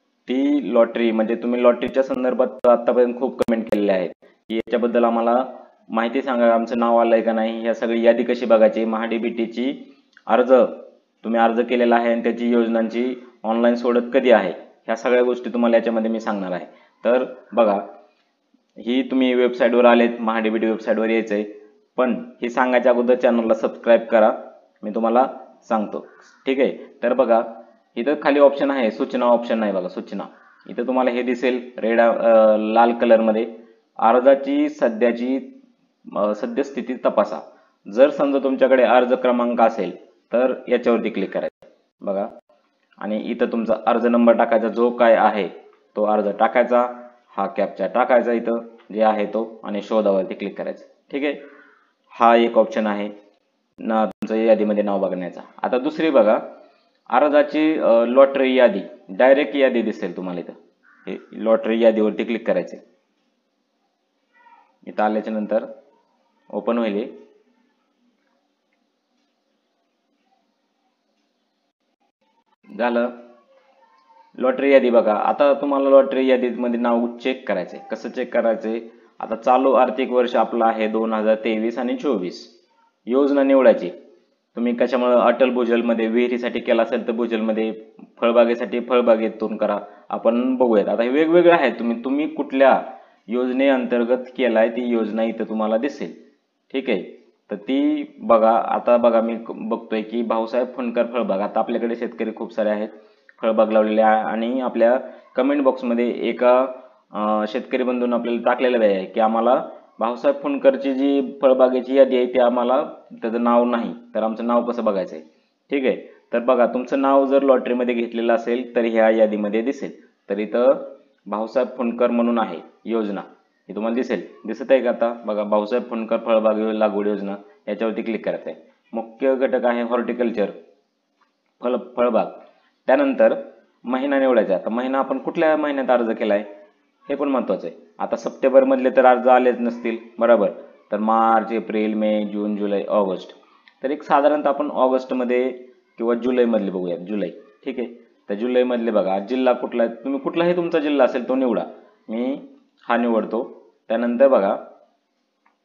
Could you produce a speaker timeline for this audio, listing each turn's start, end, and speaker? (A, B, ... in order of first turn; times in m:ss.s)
0:00.3-0:17.8 A
0:18.8-0:42.3 A
0:43.0-0:51.4 A
0:52.1-0:53.1 A
0:53.8-0:56.4 A
0:57.1-1:02.8 A
1:04.8-1:05.7 A
1:06.5-1:07.1 A
1:12.8-1:13.1 A
1:14.4-1:22.5 A
1:23.1-1:23.9 A
1:24.6-1:36.2 A
1:36.7-2:10.6 A
2:11.6-2:16.5 A
2:17.1-2:34.6 A